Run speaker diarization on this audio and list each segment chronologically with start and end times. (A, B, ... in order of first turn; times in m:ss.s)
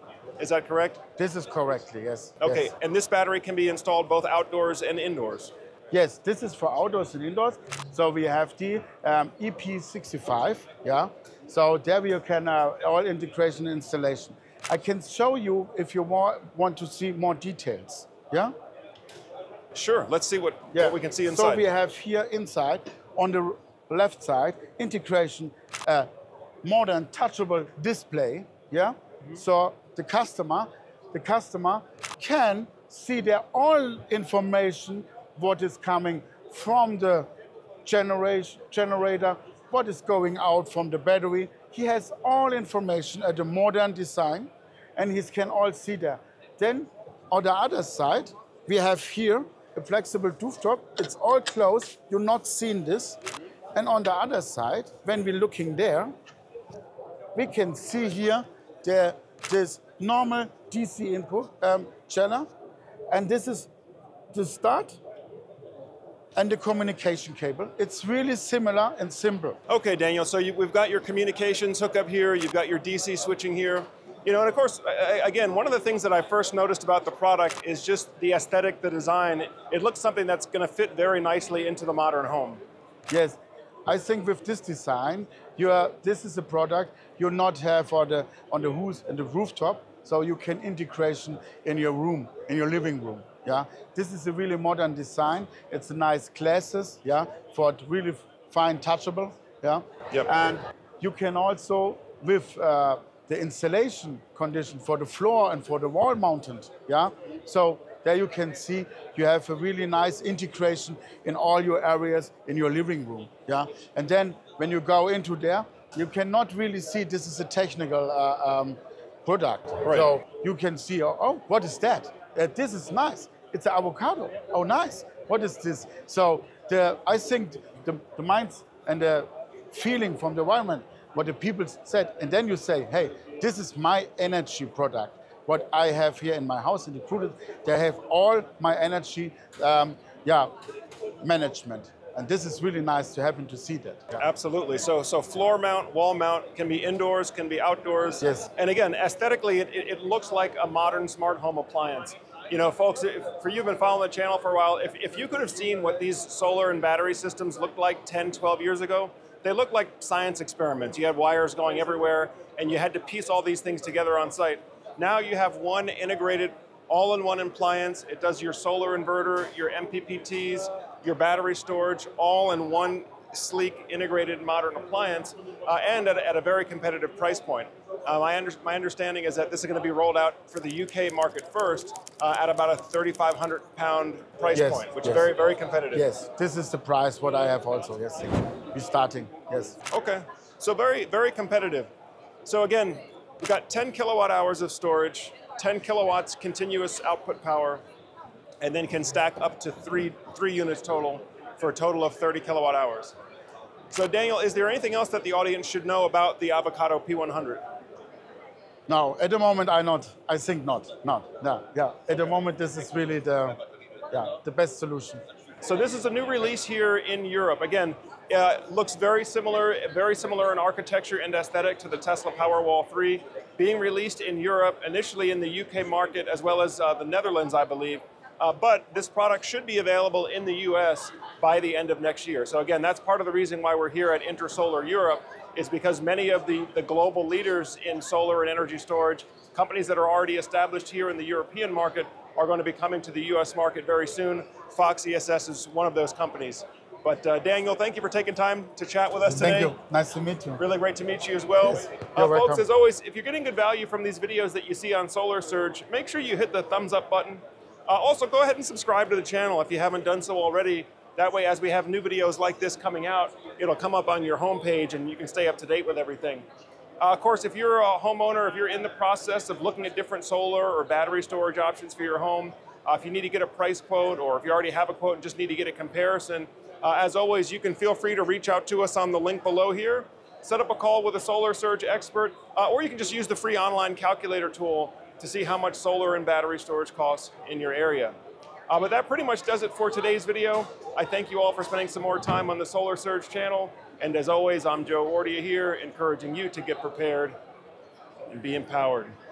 0:00.4-0:01.0 A
0:01.2-0:02.7 B
0:02.4-0:05.5 A
0:05.9-0:18.5 B
0:19.7-0:21.6 A
0:20.7-0:26.1 B
0:26.6-0:37.3 B
0:37.8-0:53.2 B
0:53.7-0:56.1 B
0:57.3-1:02.5 B
1:03.1-1:03.7 B
1:04.3-1:05.0 B
1:06.3-1:09.6 B
1:09.7-1:22.6 A
1:23.1-2:20.5 B
1:59.8-2:00.1 A
2:21.2-2:24.2 B
2:24.2-3:06.1 A
2:28.2-2:28.5 B
3:04.5-3:05.3 B
3:05.9-3:09.8 B
3:09.9-3:11.9 A
3:12.4-3:17.8 A
3:18.6-3:23.1 A
3:23.9-3:27.6 A
3:28.9-3:33.6 B
3:34.1-3:35.2 B
3:35.6-4:09.7 A
4:09.3-4:10.6 B
4:10.6-4:26.4 A
4:12.1-4:12.6 B
4:27.0-4:48.1 A
4:48.7-4:57.4 A
4:58.3-4:59.1 A